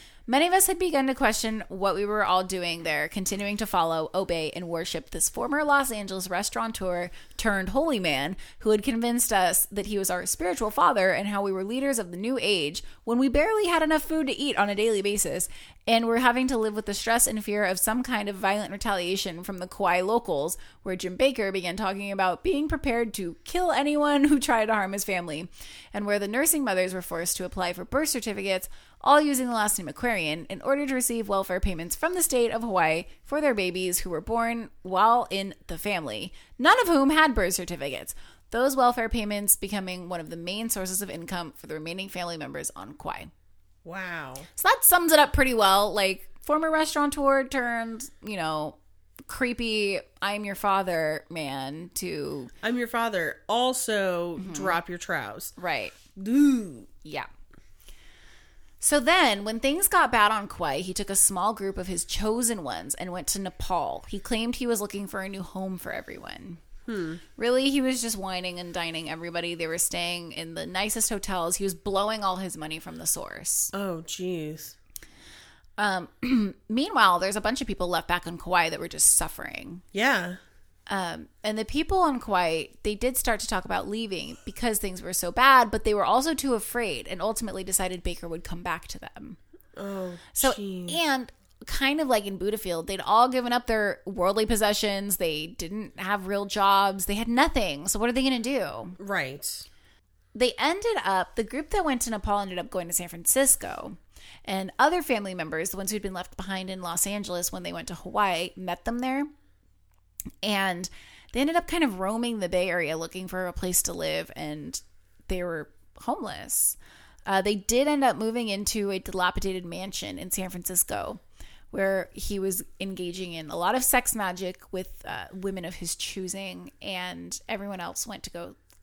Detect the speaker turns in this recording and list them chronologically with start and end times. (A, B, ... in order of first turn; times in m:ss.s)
0:00.3-0:43.3 A
0:43.8-0:44.5 B
0:44.6-0:52.5 A
0:52.6-0:55.5 B
0:54.4-0:54.8 A
0:55.6-0:56.0 A
0:56.2-0:56.9 B
0:58.8-1:06.6 A
1:06.9-1:07.2 B
1:07.4-1:13.7 A
1:13.7-1:14.8 B
1:15.8-1:19.8 A
1:19.9-1:20.4 B
1:20.9-1:29.4 A
1:29.8-1:31.0 B
1:30.4-1:39.0 A
1:39.0-1:39.6 B
1:40.3-1:49.3 A
1:50.4-2:01.2 A
2:01.7-2:08.6 A